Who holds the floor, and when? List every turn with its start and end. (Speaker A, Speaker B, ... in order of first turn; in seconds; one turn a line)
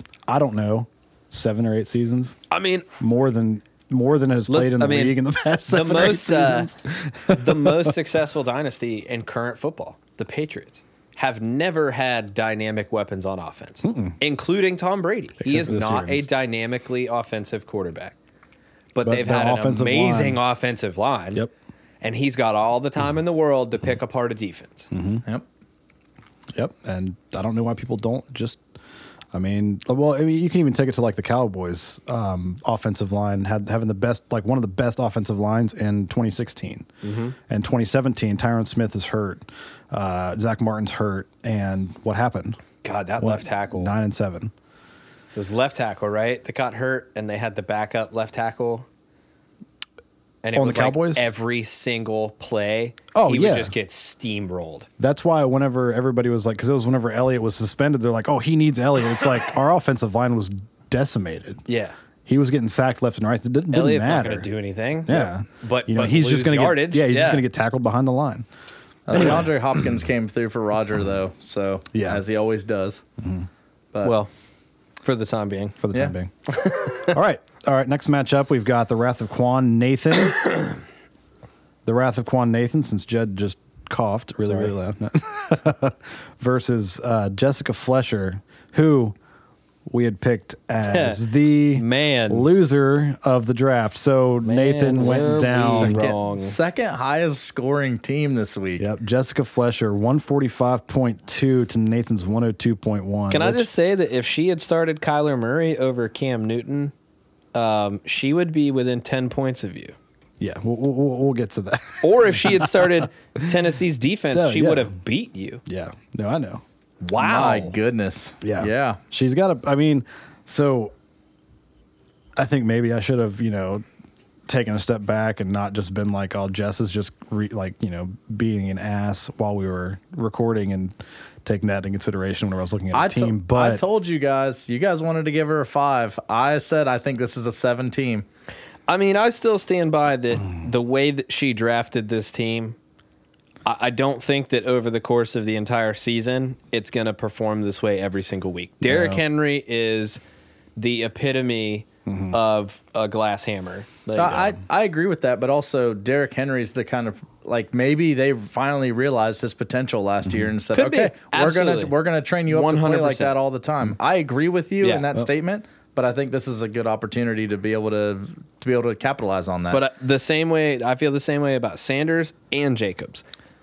Speaker A: 0.3-2.4
Speaker B: 2.5-2.9
Speaker A: 3.0-7.9
Speaker B: 4.5-6.7
Speaker B: 7.3-18.1
Speaker A: 13.8-14.2
Speaker A: 15.4-16.3
Speaker B: 18.9-21.4
Speaker A: 19.0-20.4
Speaker B: 22.0-24.9
Speaker A: 24.9-25.2
Speaker A: 26.5-28.6
Speaker A: 29.3-36.9
Speaker B: 37.0-37.4
Speaker A: 37.5-42.6
Speaker B: 42.8-44.0
Speaker A: 43.2-44.5
Speaker B: 45.3-48.9
Speaker B: 50.4-54.9
Speaker A: 50.5-51.3
Speaker A: 53.1-53.7
Speaker A: 55.0-61.6
Speaker B: 61.7-62.0
Speaker A: 62.2-64.5
Speaker B: 63.7-67.4
Speaker A: 65.1-68.5
Speaker C: 69.1-73.0
Speaker A: 69.1-69.5
Speaker A: 71.9-72.2
Speaker A: 73.2-73.5
Speaker B: 74.0-74.3
Speaker B: 75.0-75.8
Speaker A: 75.8-80.8
Speaker B: 76.5-77.0
Speaker A: 81.8-89.2
Speaker B: 84.4-84.7
Speaker A: 89.9-96.1
Speaker B: 90.8-91.2
Speaker B: 91.7-92.5
Speaker B: 94.4-96.5
Speaker C: 95.2-98.9
Speaker A: 98.8-103.7
Speaker B: 103.3-106.9
Speaker B: 107.5-110.0
Speaker A: 110.4-112.9
Speaker B: 112.0-115.6
Speaker A: 114.3-114.9
Speaker A: 115.7-116.6
Speaker B: 117.0-117.8
Speaker C: 117.2-119.0
Speaker A: 118.4-120.9
Speaker A: 122.3-123.8
Speaker A: 124.5-133.8
Speaker C: 132.9-138.2
Speaker B: 138.9-142.8
Speaker B: 143.6-150.2
Speaker A: 148.8-149.2
Speaker B: 150.8-154.6
Speaker A: 152.1-152.3
Speaker C: 154.1-169.8
Speaker B: 160.7-161.9
Speaker B: 162.5-163.4
Speaker B: 169.7-173.2